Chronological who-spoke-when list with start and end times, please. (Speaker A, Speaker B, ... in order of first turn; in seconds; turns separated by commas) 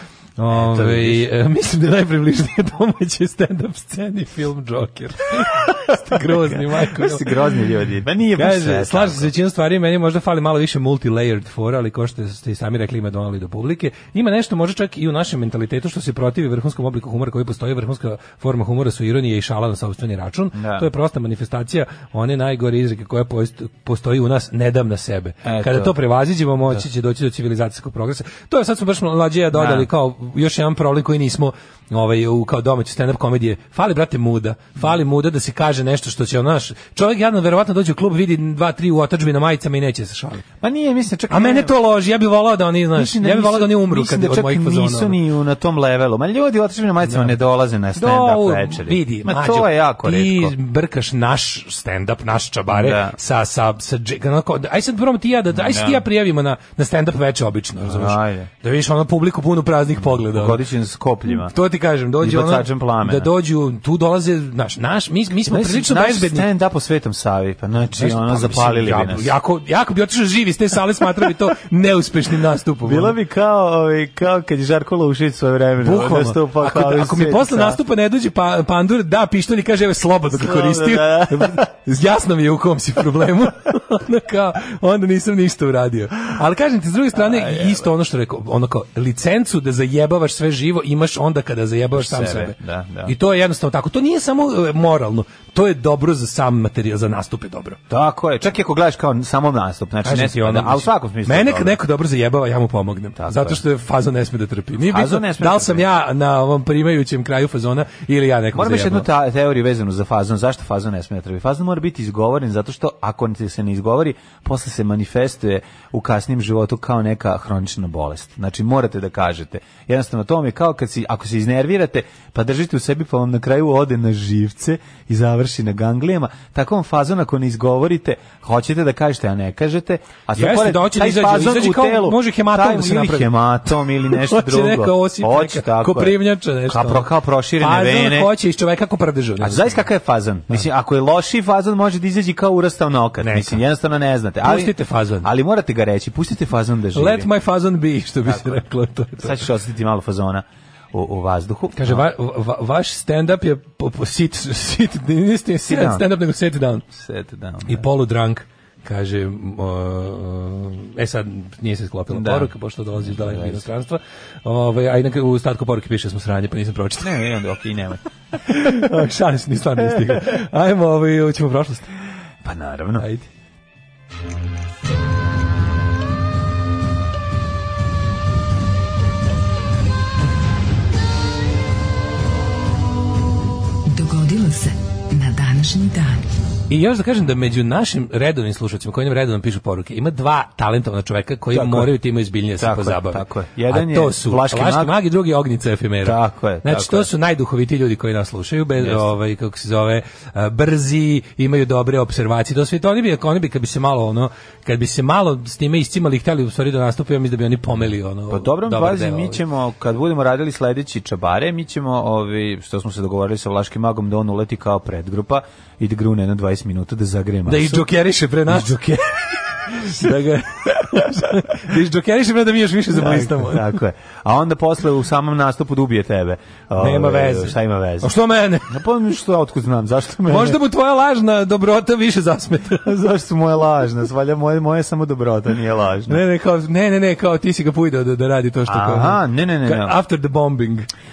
Speaker A: 0.4-7.5, Speaker B: 0.5-1.3, Speaker B: 6.3-9.3, Speaker A: 8.4-40.4, Speaker B: 20.5-20.9, Speaker B: 25.4-25.9, Speaker B: 29.5-29.9, Speaker B: 40.6-41.7, Speaker A: 41.3-45.2, Speaker B: 42.9-50.5, Speaker A: 47.9-60.6, Speaker B: 52.7-53.2, Speaker B: 55.5-56.0, Speaker B: 57.8-58.5, Speaker B: 60.0-61.5, Speaker A: 61.3-66.5, Speaker B: 62.2-63.3, Speaker B: 65.5-69.3, Speaker A: 68.0-73.1, Speaker B: 72.8-77.8, Speaker A: 75.8-97.8, Speaker B: 80.3-81.6, Speaker B: 87.1-87.9, Speaker B: 91.9-93.1, Speaker B: 97.9-101.8, Speaker A: 100.0-109.1, Speaker B: 103.2-103.6, Speaker B: 104.8-105.8, Speaker B: 108.5-138.3, Speaker A: 130.4-137.1, Speaker A: 137.6-139.7, Speaker B: 139.4-147.3, Speaker A: 143.2-143.6, Speaker A: 144.4-145.3, Speaker A: 146.9-149.4, Speaker B: 148.2-148.6, Speaker B: 149.2-152.0, Speaker A: 151.8-156.8, Speaker B: 155.6-156.1, Speaker B: 156.9-157.8, Speaker A: 157.7-167.2, Speaker B: 162.1-163.6, Speaker B: 167.0-168.0, Speaker A: 168.4-171.9, Speaker B: 172.4-173.1, Speaker A: 173.0-173.3, Speaker C: 183.9-186.1, Speaker A: 186.7-209.4, Speaker B: 191.5-191.9, Speaker B: 192.6-194.9, Speaker B: 196.0-197.1, Speaker B: 198.8-199.1, Speaker B: 208.3-217.9, Speaker A: 217.5-218.9, Speaker B: 218.5-219.1, Speaker A: 219.7-223.8, Speaker B: 219.9-220.1, Speaker B: 222.9-228.1, Speaker A: 226.8-228.7, Speaker B: 228.7-230.6, Speaker A: 230.3-232.9, Speaker B: 232.8-236.2, Speaker A: 236.1-240.9, Speaker B: 238.7-239.9